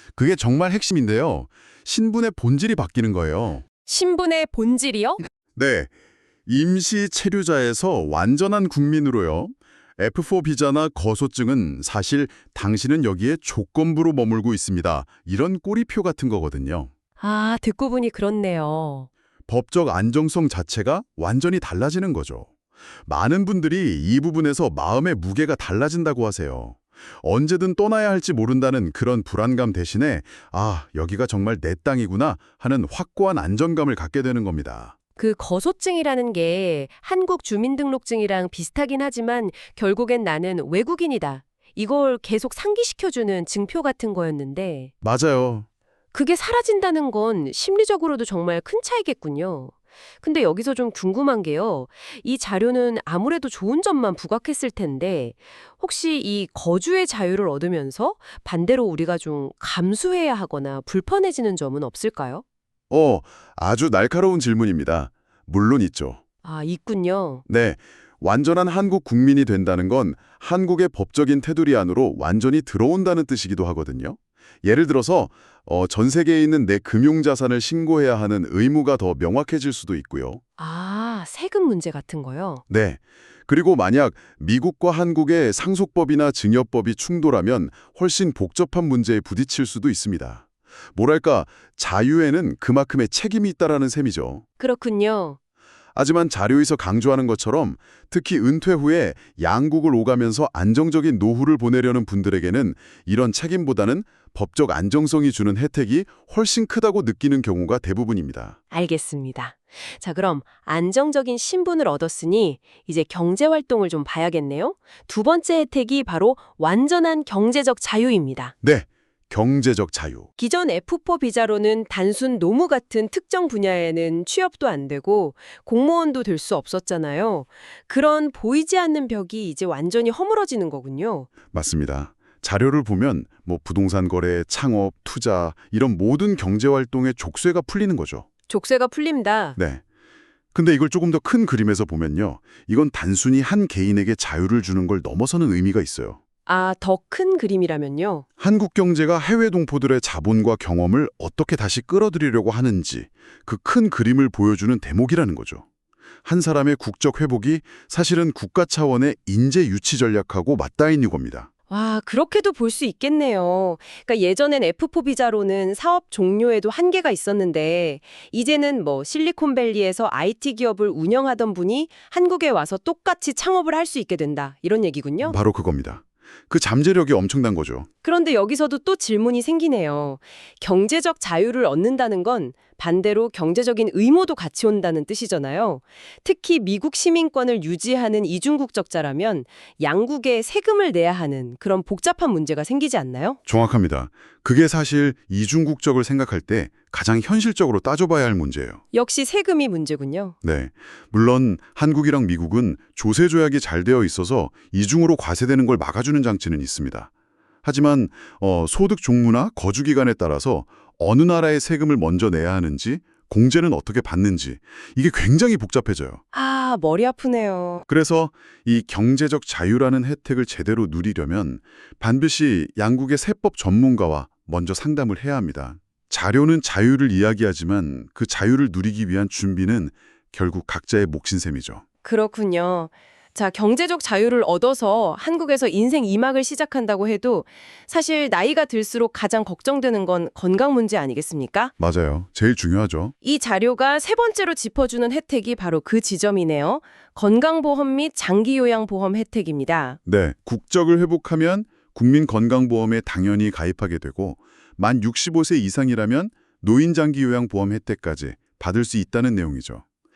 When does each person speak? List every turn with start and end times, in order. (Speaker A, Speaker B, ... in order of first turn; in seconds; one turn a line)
Speaker A: 0.2-3.6
Speaker B: 3.9-5.2
Speaker A: 5.6-5.9
Speaker A: 6.5-16.9
Speaker B: 17.2-19.1
Speaker A: 19.5-22.5
Speaker A: 23.1-35.0
Speaker B: 35.2-44.9
Speaker A: 45.0-45.7
Speaker B: 46.1-62.4
Speaker A: 62.9-66.2
Speaker B: 66.4-67.4
Speaker A: 67.5-80.4
Speaker B: 80.6-82.6
Speaker A: 82.7-94.4
Speaker B: 94.6-95.4
Speaker A: 96.0-108.6
Speaker B: 108.7-118.5
Speaker A: 118.6-120.3
Speaker B: 120.4-131.3
Speaker A: 131.5-138.3
Speaker B: 138.5-139.6
Speaker A: 139.6-139.8
Speaker A: 140.5-146.2
Speaker B: 146.5-148.2
Speaker A: 148.4-155.7
Speaker A: 156.2-161.5
Speaker B: 161.7-175.4
Speaker A: 175.2-177.9
Speaker B: 178.0-193.4
Speaker A: 193.5-198.8
Speaker B: 198.9-200.3
Speaker A: 200.4-207.1
Speaker A: 207.6-216.2
Speaker B: 216.3-217.8
Speaker A: 217.9-231.8
Speaker B: 232.0-241.7
Speaker A: 241.8-243.1
Speaker B: 243.2-250.0
Speaker A: 250.1-259.8